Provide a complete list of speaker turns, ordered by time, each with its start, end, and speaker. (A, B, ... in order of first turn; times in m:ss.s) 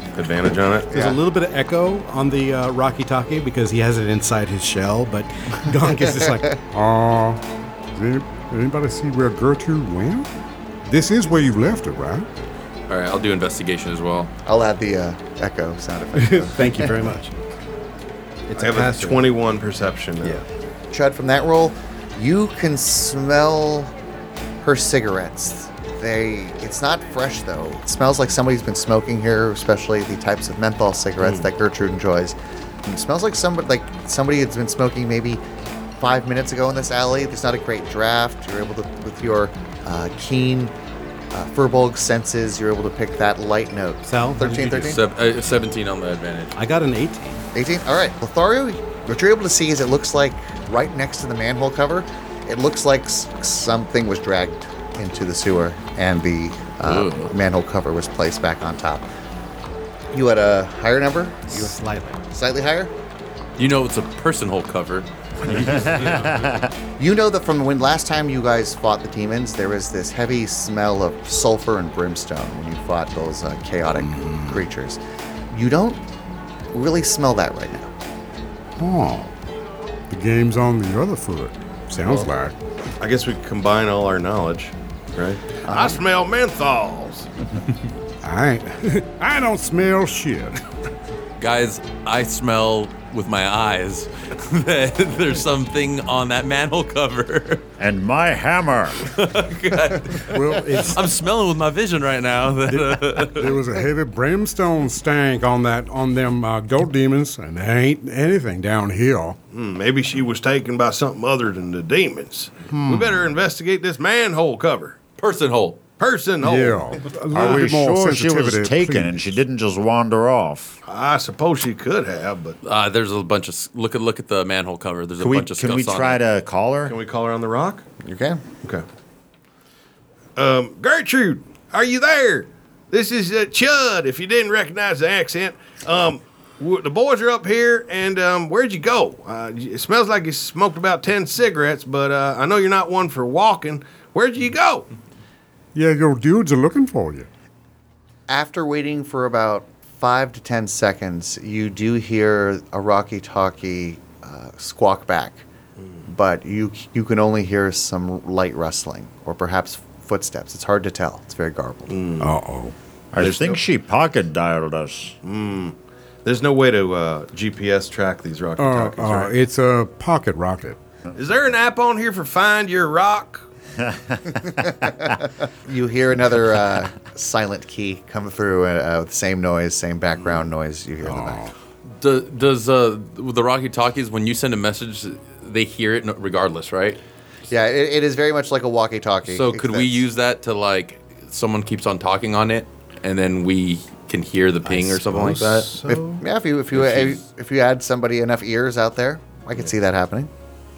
0:00.2-0:01.1 A
0:00.9-0:06.5 B
0:06.7-0:07.4 C
0:08.0-0:10.3 C
0:10.9-0:12.3 C
0:12.9-0:14.3 D
0:14.5-0:16.9 E
0:16.2-0:17.4 B
0:18.5-0:19.3 B
0:18.6-0:20.4 A
0:20.9-0:23.9 E
0:24.6-0:35.4 E
0:31.2-0:31.5 A
0:36.0-0:40.7 E
0:41.3-0:45.0 E
0:44.0-0:45.0 B
0:44.5-0:46.6 D
0:46.6-0:47.4 B
0:47.6-0:59.1 E
0:56.8-0:57.3 D
1:00.1-1:01.8 E
1:01.5-1:02.2 B
1:02.3-1:02.9 E
1:03.6-1:06.4 D
1:05.5-1:06.7 F
1:07.0-1:15.0 E
1:14.0-1:14.6 C
1:15.5-1:16.0 E
1:16.7-1:17.9 E
1:18.8-1:19.3 C
1:20.1-1:22.6 C
1:23.0-1:27.3 A
1:25.7-1:26.0 E
1:28.2-1:30.6 C
1:31.4-1:37.6 D
1:37.8-1:39.1 F
1:39.0-1:43.6 D
1:40.3-1:41.0 C
1:42.7-1:49.4 C
1:49.5-1:55.0 A
1:52.7-1:53.3 C
1:55.2-1:55.8 D
1:56.0-1:57.0 A
1:56.4-1:59.2 C
1:57.3-2:00.8 F
2:00.9-2:02.6 A
2:02.6-2:06.2 D
2:05.2-2:07.0 F
2:06.8-2:07.9 A
2:08.0-2:08.4 E
2:10.4-2:24.9 A
2:25.8-2:27.3 C
2:28.3-2:35.4 E
2:36.1-2:42.0 E
2:41.9-2:42.3 A
2:42.2-2:42.7 C
2:43.1-2:45.2 F
2:43.2-2:43.6 A
2:45.2-2:49.4 A
2:48.6-2:50.8 C
2:51.2-2:53.5 A
2:53.8-2:54.4 F
2:54.6-3:01.4 E
3:01.0-3:01.5 C
3:02.0-3:07.0 D
3:07.5-3:10.0 E
3:09.3-3:15.7 D
3:14.7-3:16.2 B
3:15.9-3:20.3 E
3:16.7-3:17.2 D